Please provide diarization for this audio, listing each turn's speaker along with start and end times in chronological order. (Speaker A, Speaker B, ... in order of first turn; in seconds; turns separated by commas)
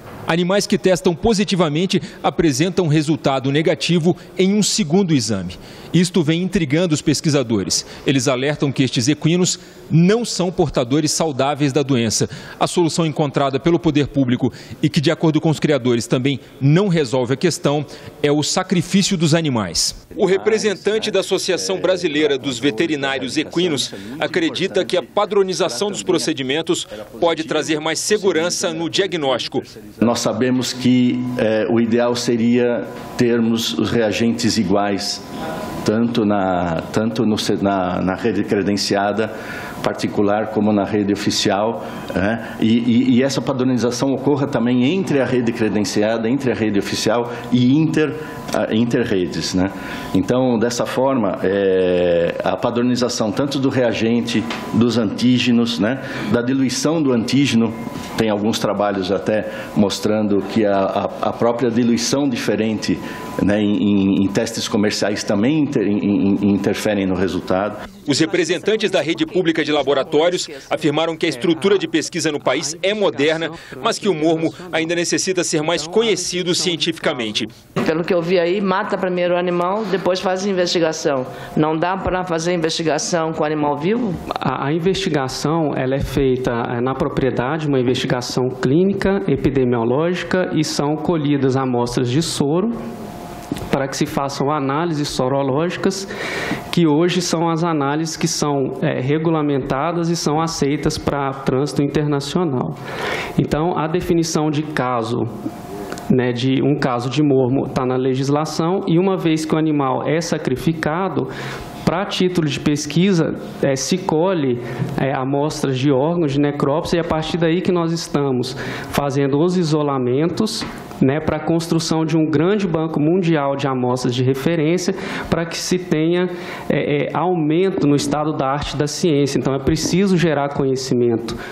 Speaker A: 0.3-29.7, Speaker B: 20.2-26.3, Speaker B: 27.2-35.2, Speaker B: 35.8-67.9, Speaker A: 68.0-77.5, Speaker C: 71.3-71.8, Speaker C: 72.4-74.9, Speaker C: 75.6-77.5, Speaker D: 77.9-84.1, Speaker C: 84.4-92.7, Speaker C: 93.7-96.1, Speaker C: 96.7-102.8, Speaker C: 103.4-105.3, Speaker C: 106.1-111.3, Speaker C: 111.8-131.4